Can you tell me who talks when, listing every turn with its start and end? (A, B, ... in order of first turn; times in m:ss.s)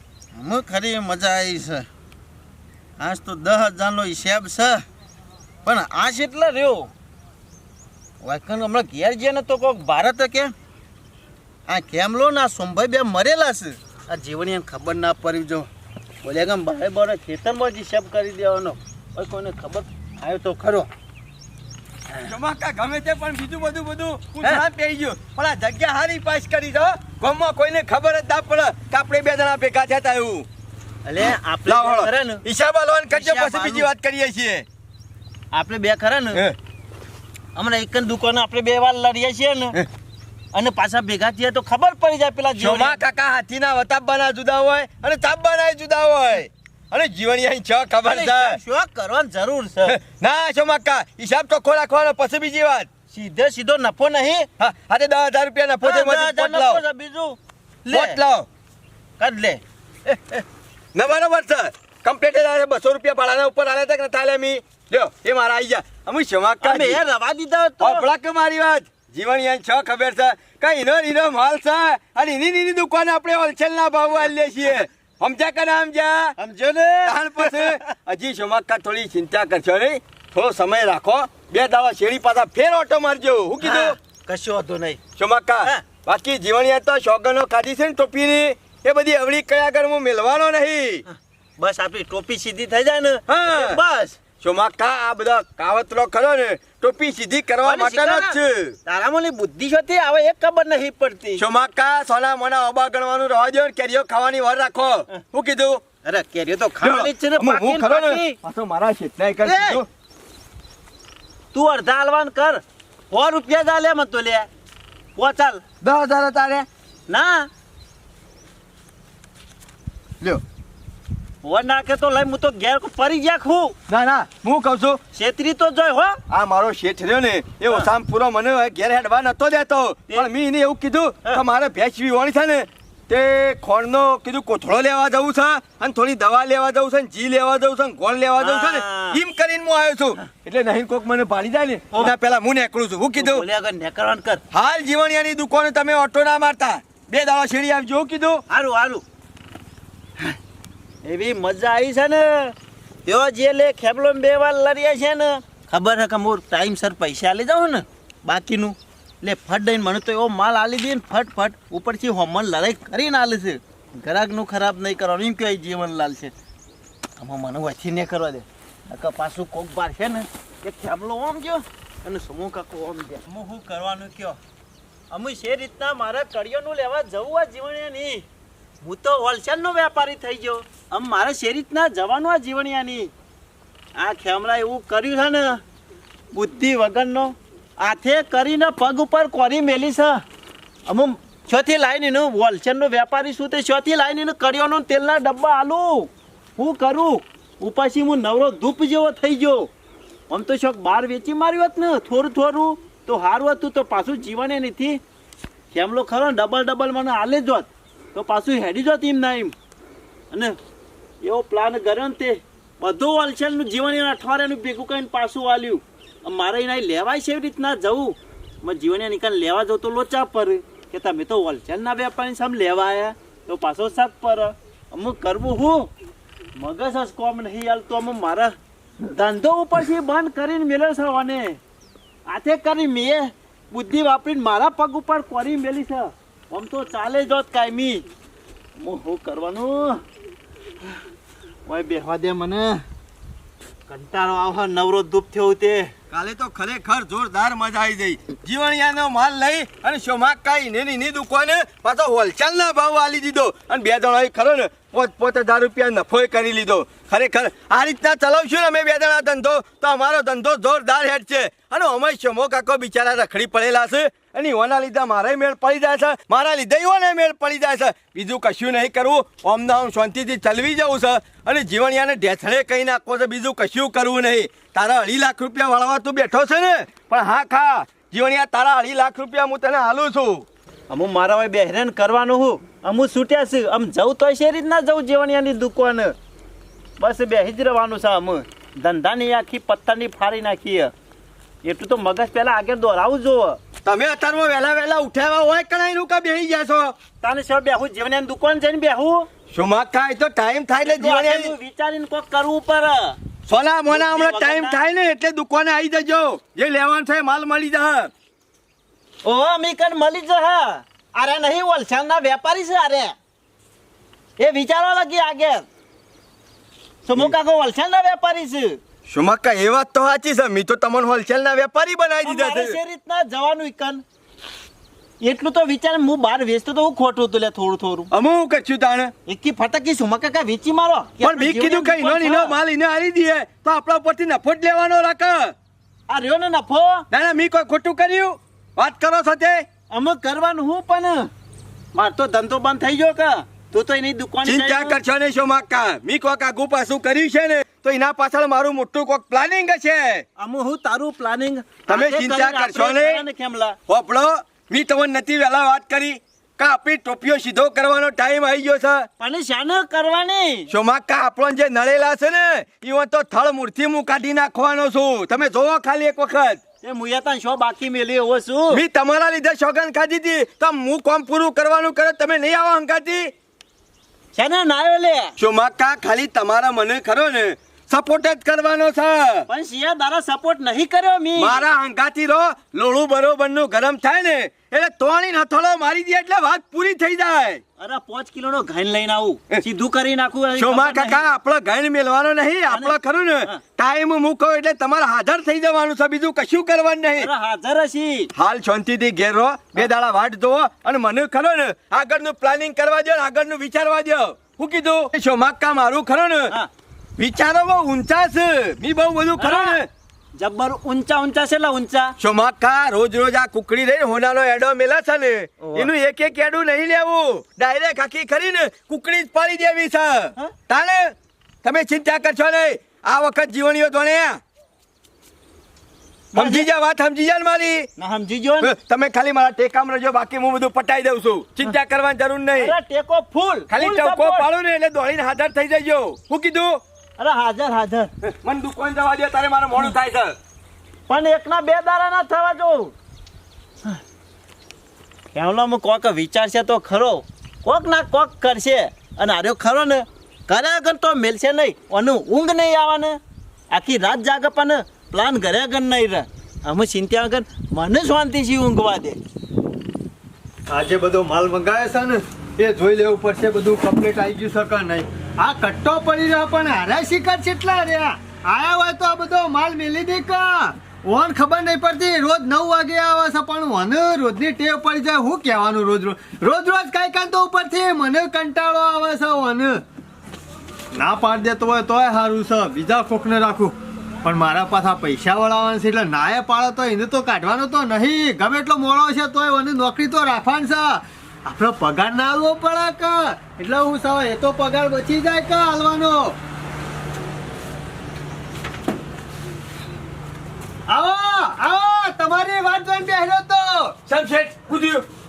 0:00.3-0:01.9 A
0:03.0-0:04.8 A
0:05.6-0:06.9 A
0:08.2-0:10.5 A
0:11.7-0:15.7 A
0:16.2-0:20.9 A
0:22.2-0:30.5 B
0:31.0-0:32.4 A
0:31.2-0:34.6 B
0:33.1-0:33.9 A
0:35.5-0:36.4 A
0:37.5-0:39.8 A
0:40.5-0:43.0 A
0:42.6-0:48.6 B
0:48.0-0:50.0 A
0:49.8-0:52.9 B
0:53.1-0:54.5 A
0:54.6-0:56.8 B
0:55.8-0:58.2 A
0:57.9-0:58.5 B
0:59.2-1:00.4 A
1:00.9-1:07.0 B
1:06.6-1:08.0 A
1:07.8-1:16.4 B
1:16.4-1:17.8 A
1:17.0-1:24.0 B
1:23.6-1:25.0 A
1:25.2-1:31.0 B
1:31.1-1:34.2 A
1:33.3-1:33.8 B
1:34.4-1:38.8 B
1:37.6-1:41.4 A
1:41.4-1:45.8 B
1:46.0-1:48.4 A
1:46.8-1:49.9 B
1:49.4-1:49.8 A
1:51.5-1:54.5 A
1:55.2-1:55.6 A
1:55.8-1:56.7 B
1:57.1-1:57.5 A
2:01.4-2:03.8 A
2:03.9-2:05.0 B
2:05.1-2:06.2 A
2:06.3-2:23.4 B
2:18.4-2:19.2 A
2:23.2-2:24.4 A
2:24.5-2:28.4 B
2:28.5-2:29.0 A
2:31.0-2:46.3 A
2:47.2-2:54.4 A
2:55.1-2:58.2 A
2:58.8-3:03.1 A
3:04.0-3:05.6 A
3:06.3-3:10.2 A
3:10.9-3:19.7 A
3:20.3-3:25.0 A
3:25.7-3:29.5 A
3:30.3-3:30.6 A
3:31.2-3:45.9 A
3:46.6-3:51.6 A
3:52.3-3:58.1 A
3:58.8-4:00.0 A
4:01.7-4:02.8 A
4:03.9-4:05.9 A
4:06.1-4:40.4 B
4:40.9-4:46.1 A
4:47.0-4:50.9 A
4:51.6-4:53.6 A
4:53.8-4:57.0 B
4:57.2-4:59.3 A
4:59.5-5:01.5 B
5:00.8-5:03.2 A
5:03.5-5:08.1 B
5:03.9-5:04.8 A
5:09.2-5:13.1 A
5:14.4-5:15.7 A
5:17.0-5:18.8 A
5:19.1-5:22.8 B
5:22.2-5:24.0 A
5:25.2-5:28.1 A
5:28.1-5:29.1 B
5:29.2-5:32.5 A
5:31.2-5:35.5 B
5:36.1-5:37.0 A
5:37.1-5:39.7 B
5:39.9-5:41.3 A
5:41.9-5:45.0 A
5:44.4-5:50.2 B
5:50.4-5:53.8 A
5:51.9-5:53.2 B
5:53.9-5:59.1 B
5:59.2-6:00.7 A
6:00.7-6:06.6 B
6:06.8-6:08.8 A
6:08.7-6:13.3 B
6:14.3-6:15.3 A
6:15.4-6:19.5 B
6:19.5-6:21.6 A
6:21.4-6:27.6 B
6:27.8-6:31.2 A
6:30.6-6:37.3 B
6:32.7-6:33.6 A
6:37.2-6:38.3 A
6:38.4-6:46.5 B
6:47.2-6:49.9 B
6:49.4-6:49.8 A
6:50.4-6:52.1 A
6:52.2-7:04.4 B
6:55.6-6:55.9 A
7:06.3-7:07.9 B
7:06.3-7:06.6 A
7:08.0-7:08.7 A
7:08.6-7:12.8 B
7:12.6-7:14.4 A
7:13.7-7:16.8 B
7:17.2-7:18.1 A
7:18.2-7:20.4 B
7:21.1-7:22.9 A
7:25.3-7:33.2 A
7:33.7-7:39.2 A
7:40.7-7:59.8 C
8:00.9-8:16.4 C
8:20.9-8:24.0 C
8:24.1-8:25.0 B